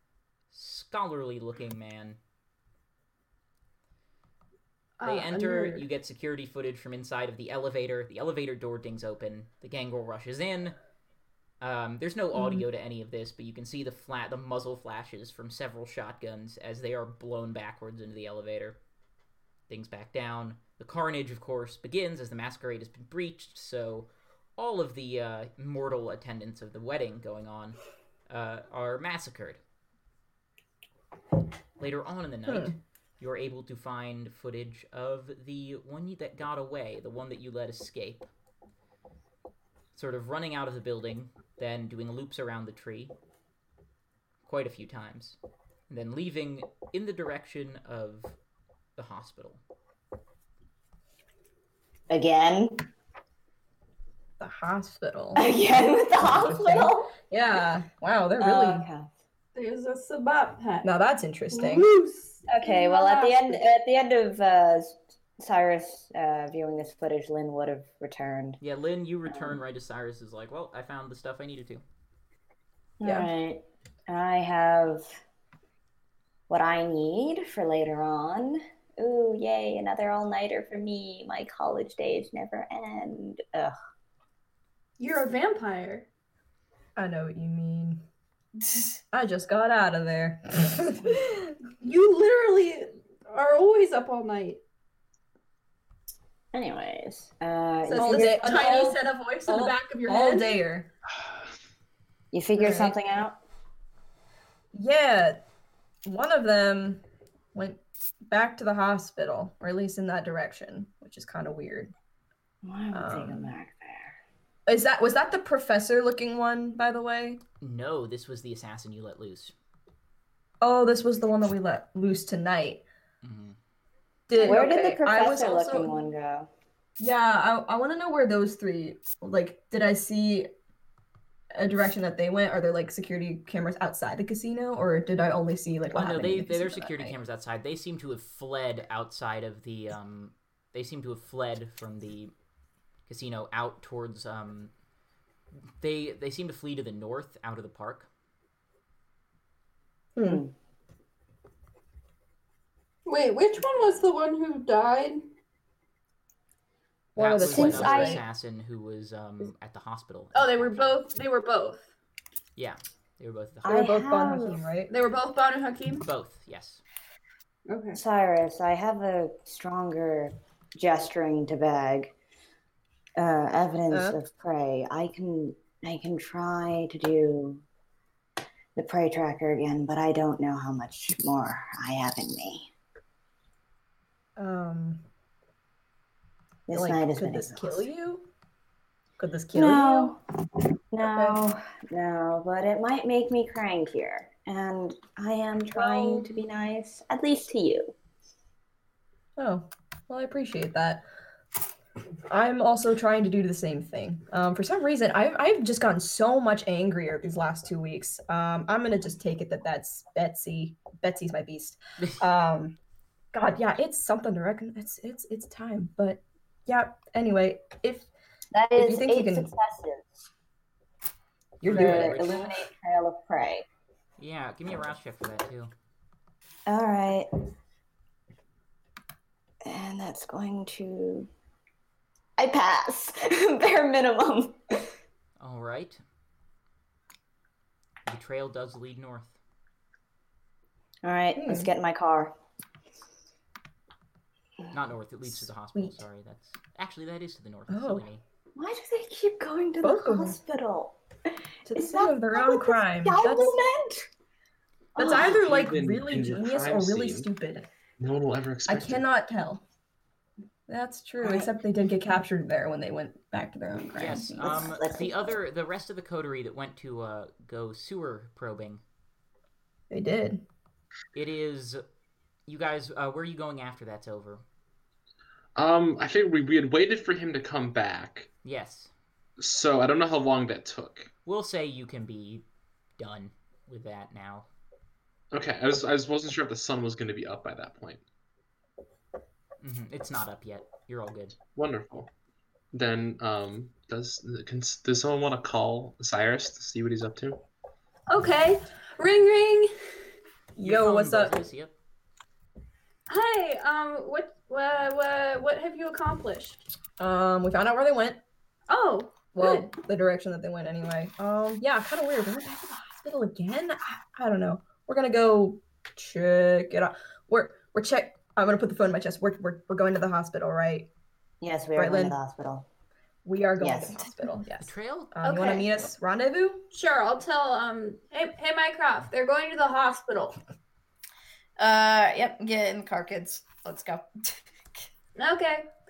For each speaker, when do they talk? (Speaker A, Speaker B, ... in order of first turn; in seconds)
Speaker A: 0.5-2.2, 5.0-10.7, 11.6-18.8, 19.7-27.8, 28.3-29.6, 31.8-38.3, 39.9-43.1, 44.4-45.4, 45.9-48.3, 49.0-49.6, 68.6-71.8, 117.6-119.5, 123.2-123.6, 135.9-142.3, 143.1-144.7, 145.8-148.1, 157.2-161.0, 162.6-163.8, 166.0-166.8, 221.7-222.2, 224.2-225.7, 235.4-236.0, 238.1-239.4, 244.7-248.2, 263.9-268.8, 271.1-271.8, 272.5-274.4, 278.4-278.9, 281.2-282.4, 283.0-284.5, 289.6-291.4, 300.6-301.7, 324.6-325.1
Speaker B: 5.0-5.8, 59.5-60.9, 61.5-63.6, 85.0-86.1, 91.8-94.6, 97.9-100.6, 153.1-155.2, 160.3-161.9, 164.9-166.0, 167.7-168.0, 298.1-299.7, 303.1-306.6, 308.7-309.7, 325.2-325.7, 326.7-330.4, 335.1-335.7
Speaker C: 12.3-12.7, 32.5-32.8, 54.4-55.4, 56.4-58.9, 60.8-61.9, 73.0-73.3, 87.0-88.0, 89.1-91.6, 97.9-100.9, 102.5-103.0, 104.7-105.4, 106.0-107.0, 107.5-111.9, 112.9-113.5, 114.7-117.4, 120.6-122.8, 124.3-125.9, 127.0-130.5, 131.5-137.2, 150.2-150.4, 157.2-158.2, 163.6-164.9, 173.9-174.2, 184.4-185.0, 186.7-188.3, 189.2-190.1, 191.1-191.4, 195.7-196.3, 199.4-201.1, 202.3-212.8, 213.3-218.1, 218.8-219.5, 221.6-222.6, 241.3-241.7, 247.7-248.0, 249.8-250.4, 251.7-253.6, 254.9-257.7, 258.7-259.6, 260.7-264.6, 269.9-270.4, 300.6-301.4, 307.0-308.2, 309.3-320.9, 321.8-322.1, 323.2-326.6
Speaker D: 52.1-52.8, 55.3-57.1, 58.4-59.1, 62.5-68.6, 69.3-69.6, 73.0-75.2, 76.5-83.7, 96.5-98.9, 102.3-103.4, 112.6-114.2, 124.3-126.5, 150.2-150.5, 157.4-158.2, 163.6-164.6, 167.9-172.1, 173.2-177.6, 178.7-182.7, 186.7-187.9, 189.5-190.2, 190.9-197.9, 218.5-220.2, 221.6-223.7, 226.7-227.3, 229.6-231.3, 232.4-234.8, 241.0-242.3, 248.5-251.0, 251.7-254.1, 261.2-261.6, 264.4-265.4, 321.4-322.6, 323.6-324.0
Speaker E: 255.0-257.3, 258.0-259.0, 275.6-278.3, 279.4-281.1, 285.3-288.0, 291.6-292.1, 292.7-297.4
Speaker F: 331.6-334.3